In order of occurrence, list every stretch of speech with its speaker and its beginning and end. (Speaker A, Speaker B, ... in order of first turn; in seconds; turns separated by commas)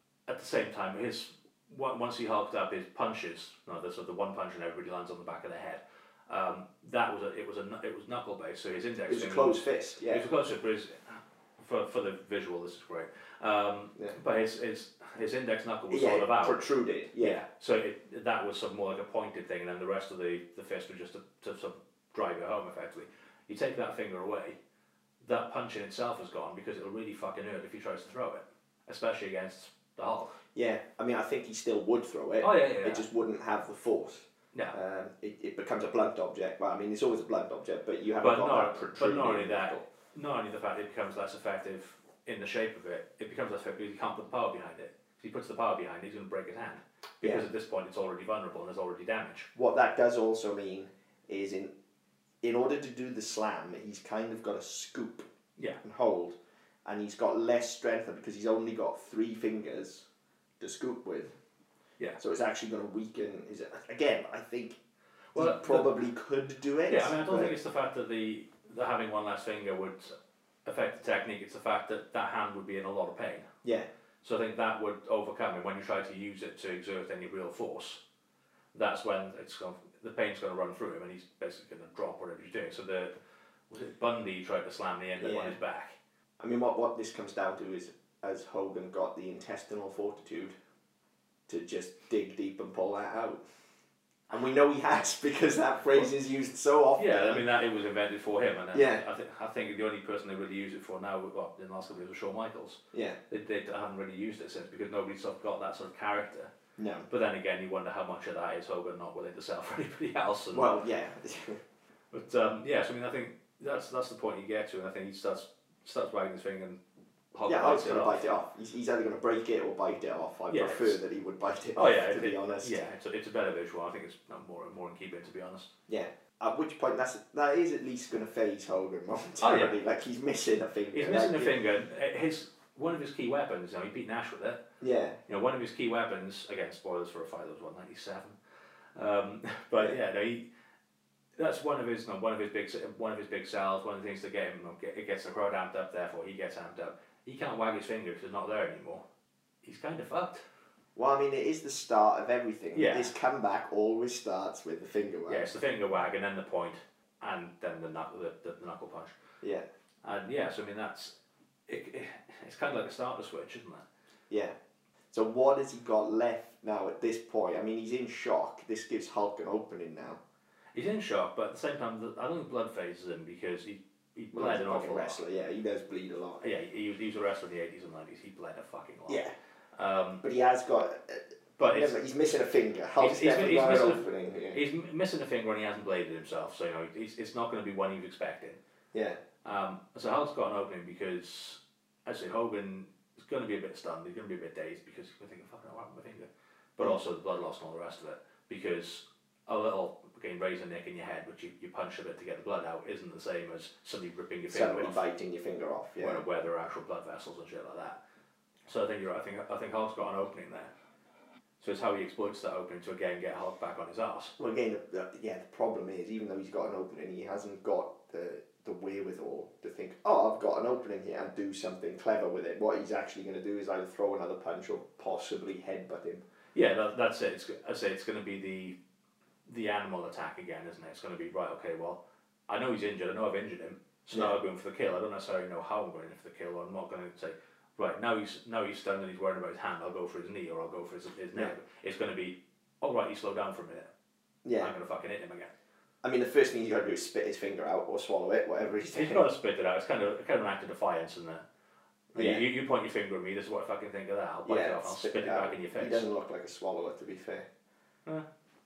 Speaker A: 0.3-16.6, Speaker B: 9.1-10.2, Speaker B: 15.9-17.4, Speaker A: 17.2-24.6, Speaker A: 25.2-30.4, Speaker B: 30.5-39.8, Speaker A: 32.4-33.0, Speaker A: 38.2-49.5, Speaker B: 49.5-51.7, Speaker B: 52.4-55.3, Speaker B: 55.8-60.0, Speaker B: 60.6-61.3, Speaker B: 62.2-64.8, Speaker A: 65.3-65.9, Speaker B: 65.3-67.5, Speaker A: 66.9-70.1, Speaker A: 70.6-73.5, Speaker A: 74.2-78.0, Speaker A: 78.7-83.1, Speaker A: 83.7-86.0, Speaker B: 85.2-85.6, Speaker B: 86.4-90.5, Speaker B: 91.5-93.4, Speaker B: 94.3-97.5, Speaker A: 97.0-106.5, Speaker B: 98.7-99.0, Speaker B: 102.9-103.2, Speaker B: 106.8-107.1, Speaker A: 107.1-110.7, Speaker B: 110.5-111.6, Speaker A: 112.1-116.8, Speaker A: 117.3-118.2, Speaker B: 117.5-122.8, Speaker A: 120.5-121.0, Speaker A: 121.8-125.7, Speaker B: 125.9-131.6, Speaker A: 129.4-129.8, Speaker A: 130.9-134.6, Speaker B: 134.8-135.2, Speaker A: 135.3-138.4, Speaker A: 138.9-140.5, Speaker A: 141.4-149.0, Speaker A: 149.6-150.4, Speaker B: 150.9-155.5, Speaker A: 152.7-153.1, Speaker A: 155.3-159.1, Speaker A: 160.0-161.1, Speaker A: 161.7-163.8, Speaker B: 164.3-164.5, Speaker B: 165.1-170.2, Speaker A: 170.7-175.2, Speaker B: 174.3-176.4, Speaker A: 176.4-180.2, Speaker B: 179.1-179.3, Speaker B: 180.2-184.6, Speaker A: 181.6-182.0, Speaker A: 183.0-188.6, Speaker B: 188.9-189.2, Speaker A: 189.4-205.0, Speaker B: 204.5-206.2, Speaker A: 206.0-208.0, Speaker A: 208.7-210.7, Speaker A: 211.6-214.3, Speaker B: 214.4-226.2, Speaker A: 226.5-228.8, Speaker A: 229.4-243.9, Speaker B: 244.4-244.7, Speaker A: 244.6-245.5, Speaker B: 246.0-249.2, Speaker A: 248.9-251.4, Speaker B: 252.1-252.4, Speaker A: 252.1-256.1, Speaker B: 254.4-257.4